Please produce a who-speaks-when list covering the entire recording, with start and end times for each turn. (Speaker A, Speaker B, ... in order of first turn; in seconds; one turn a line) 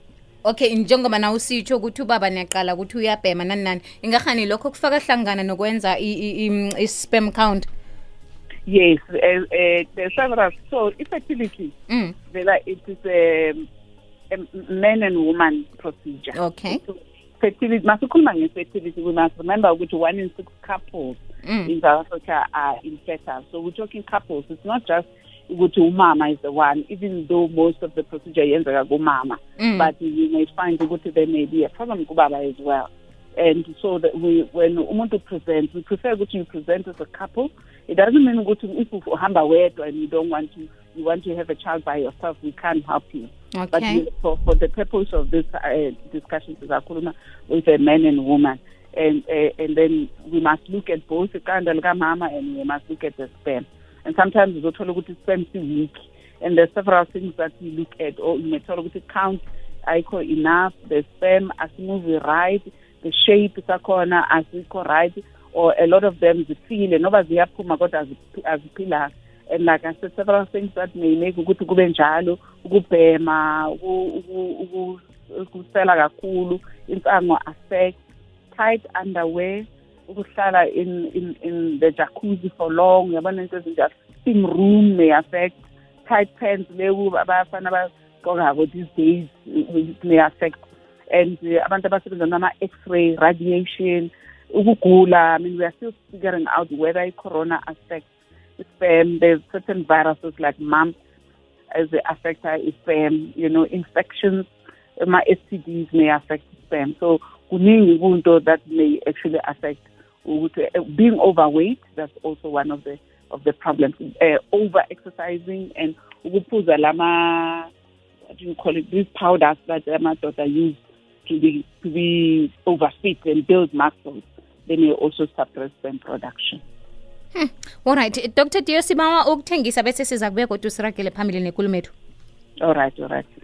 Speaker A: 0.4-7.7
Speaker B: 8.7-11.7
Speaker A: 11.9-12.1
Speaker B: 12.3-13.7
Speaker B: 14.3-77.9
Speaker A: 16.3-16.8
Speaker A: 21.4-21.7
Speaker A: 29.6-29.9
Speaker A: 43.5-44.0
Speaker B: 78.5-98.0
Speaker B: 98.6-100.9
Speaker B: 101.7-104.5
Speaker B: 105.0-117.7
Speaker B: 118.3-126.6
Speaker A: 127.3-131.9
Speaker B: 132.6-133.3